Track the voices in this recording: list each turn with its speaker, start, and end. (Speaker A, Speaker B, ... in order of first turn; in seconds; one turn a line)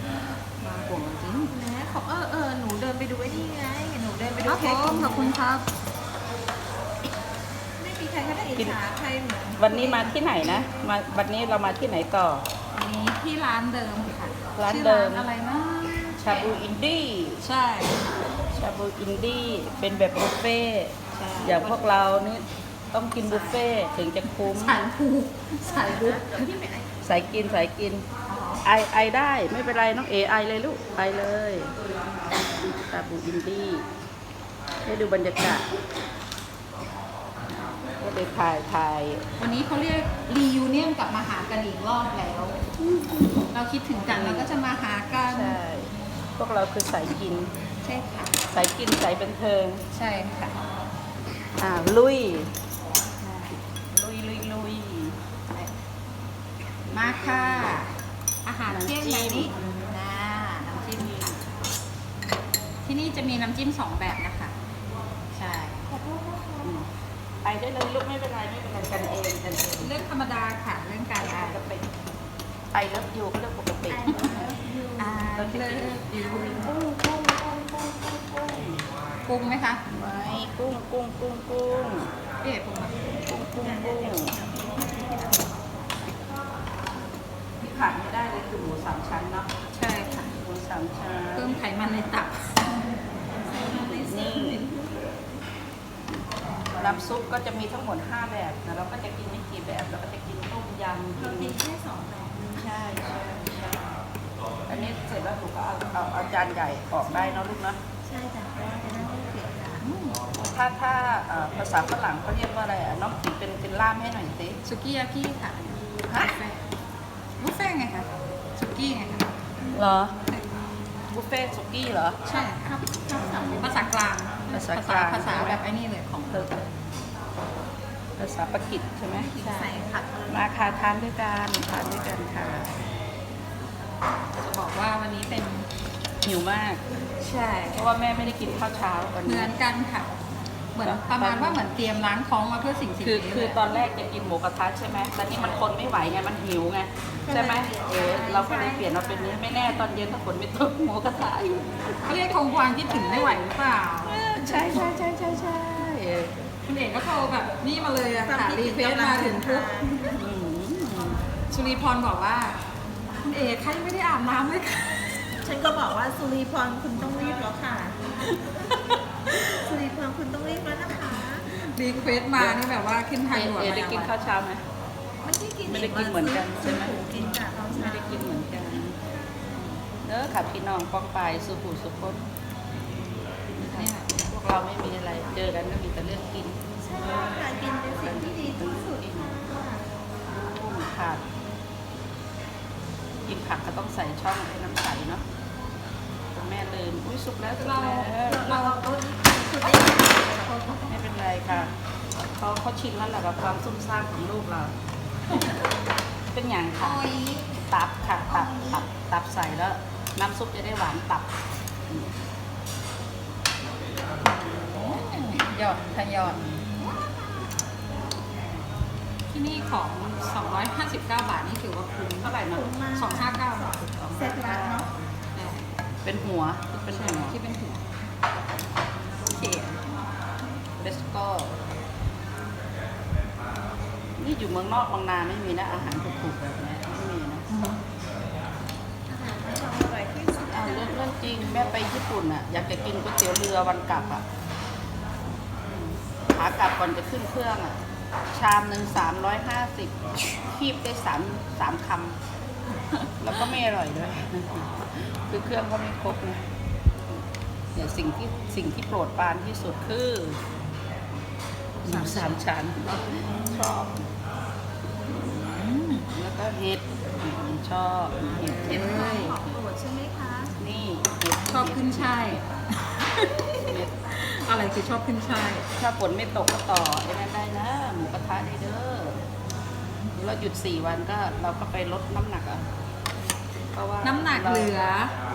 Speaker A: 0.6-1.5
Speaker B: 1.5-5.3
Speaker A: 4.4-5.7
Speaker B: 7.8-10.3
Speaker C: 9.6-12.4
Speaker A: 12.7-16.4
Speaker C: 14.6-15.3
Speaker C: 16.2-17.4
Speaker A: 17.4-18.1
Speaker C: 18.5-24.8
Speaker A: 21.2-21.8
Speaker A: 23.2-23.6
Speaker A: 24.4-26.2
Speaker C: 25.8-26.2
Speaker B: 25.9-27.3
Speaker C: 27.0-28.1
Speaker A: 28.3-28.6
Speaker C: 28.6-31.7
Speaker C: 32.6-33.8
Speaker C: 34.8-35.7
Speaker C: 37.5-39.2
Speaker A: 39.4-42.6
Speaker C: 42.8-43.4
Speaker A: 43.5-45.6
Speaker C: 44.0-44.5
Speaker C: 45.3-47.5
Speaker A: 47.8-48.3
Speaker C: 48.5-49.8
Speaker A: 49.9-50.6
Speaker C: 51.6-52.5
Speaker C: 53.9-55.2
Speaker A: 56.9-57.9
Speaker C: 56.9-57.8
Speaker A: 58.4-61.4
Speaker C: 58.7-59.5
Speaker A: 62.8-64.5
Speaker A: 65.3-65.9
Speaker B: 65.9-66.7
Speaker C: 66.6-66.9
Speaker C: 67.4-70.0
Speaker A: 69.8-71.6
Speaker C: 71.2-71.9
Speaker C: 72.7-74.5
Speaker B: 73.9-75.3
Speaker A: 75.0-76.7
Speaker C: 75.3-78.8
Speaker A: 79.2-79.8
Speaker C: 79.9-82.1
Speaker A: 82.4-83.0
Speaker C: 83.3-84.3
Speaker B: 83.6-85.6
Speaker C: 87.6-89.5
Speaker A: 89.7-90.3
Speaker C: 90.3-91.5
Speaker A: 91.3-92.7
Speaker B: 93.3-95.0
Speaker C: 93.9-94.7
Speaker C: 96.8-101.5
Speaker B: 101.2-102.7
Speaker C: 102.5-104.0
Speaker C: 104.7-107.8
Speaker B: 107.1-107.5
Speaker B: 108.0-109.8
Speaker A: 109.8-110.2
Speaker C: 110.3-114.6
Speaker A: 114.6-116.6
Speaker C: 116.0-116.4
Speaker A: 117.4-119.3
Speaker C: 119.7-120.1
Speaker C: 121.1-122.2
Speaker B: 122.2-124.0
Speaker A: 122.3-126.5
Speaker C: 124.5-125.6
Speaker C: 126.3-126.6
Speaker C: 128.2-129.3
Speaker B: 129.1-130.9
Speaker A: 129.4-129.7
Speaker C: 130.3-132.7
Speaker A: 134.4-135.7
Speaker C: 136.2-136.8
Speaker B: 137.2-137.7
Speaker A: 137.4-137.8
Speaker C: 137.7-139.5
Speaker A: 139.2-140.2
Speaker A: 140.7-143.6
Speaker C: 140.8-141.6
Speaker C: 143.0-152.3
Speaker B: 147.2-149.4
Speaker A: 152.0-154.2
Speaker C: 154.0-156.3
Speaker A: 156.7-159.7
Speaker B: 158.1-160.2
Speaker C: 160.1-161.2
Speaker A: 161.5-162.6
Speaker A: 163.2-165.1
Speaker B: 165.4-168.1
Speaker B: 169.3-171.7
Speaker A: 171.5-174.1
Speaker C: 172.3-172.6
Speaker C: 173.3-174.6
Speaker B: 175.2-178.6
Speaker C: 175.7-177.0
Speaker C: 177.7-178.9
Speaker C: 180.0-182.3
Speaker C: 183.5-186.6
Speaker A: 183.7-184.1
Speaker B: 186.8-189.8
Speaker C: 187.9-189.4
Speaker C: 190.3-191.2
Speaker C: 193.2-195.2
Speaker C: 196.3-198.5
Speaker A: 197.6-199.0
Speaker B: 198.1-200.9
Speaker A: 199.6-200.9
Speaker C: 200.9-201.7
Speaker C: 202.4-204.7
Speaker C: 206.3-207.0
Speaker A: 206.8-207.6
Speaker C: 207.7-211.2
Speaker B: 208.3-208.8
Speaker A: 214.2-217.5
Speaker A: 219.3-222.4
Speaker C: 222.2-222.6
Speaker B: 222.5-224.9
Speaker A: 222.9-223.7
Speaker C: 223.8-224.9
Speaker A: 225.3-225.7
Speaker C: 226.0-227.4
Speaker A: 226.9-227.8
Speaker A: 229.3-229.8
Speaker C: 230.8-231.5
Speaker C: 234.2-237.4
Speaker A: 237.5-237.8
Speaker B: 239.1-241.7
Speaker C: 240.5-244.2
Speaker C: 245.7-247.8
Speaker C: 248.3-252.2
Speaker C: 253.2-256.4
Speaker C: 257.7-260.4
Speaker A: 261.8-263.6
Speaker C: 261.8-264.0
Speaker A: 265.4-266.0
Speaker C: 266.1-269.1
Speaker A: 268.3-269.4
Speaker B: 268.6-270.5
Speaker C: 270.6-272.4
Speaker A: 271.5-273.4
Speaker C: 273.6-273.9
Speaker A: 274.2-275.7
Speaker C: 275.8-279.2
Speaker C: 280.1-282.6
Speaker C: 283.7-284.8
Speaker A: 284.0-285.1